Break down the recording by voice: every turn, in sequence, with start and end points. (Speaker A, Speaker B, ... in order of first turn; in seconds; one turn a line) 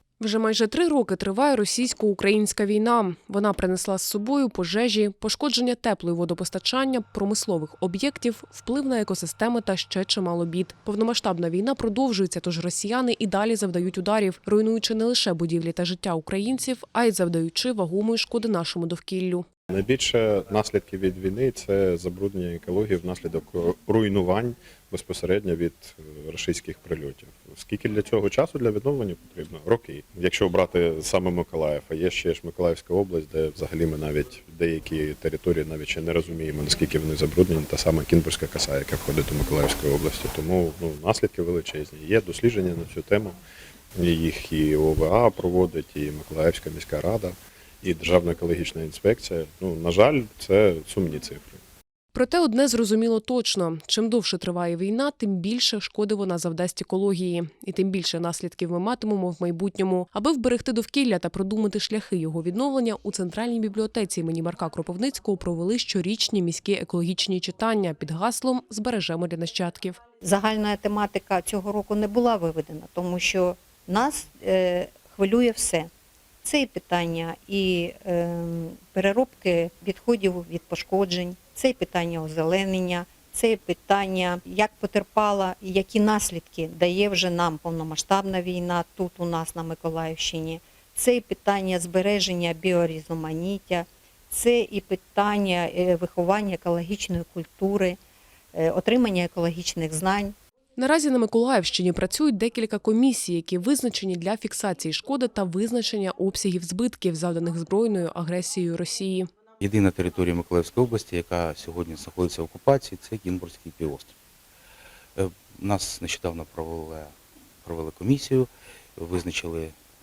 Speaker A: 0.2-19.5
Speaker B: 19.7-43.4
Speaker B: 44.0-51.6
Speaker A: 52.1-70.0
Speaker C: 70.2-75.9
Speaker C: 76.5-98.0
Speaker C: 98.5-100.3
Speaker A: 100.8-109.3
Speaker D: 109.6-114.1
Speaker D: 115.2-117.1
Speaker D: 117.7-119.7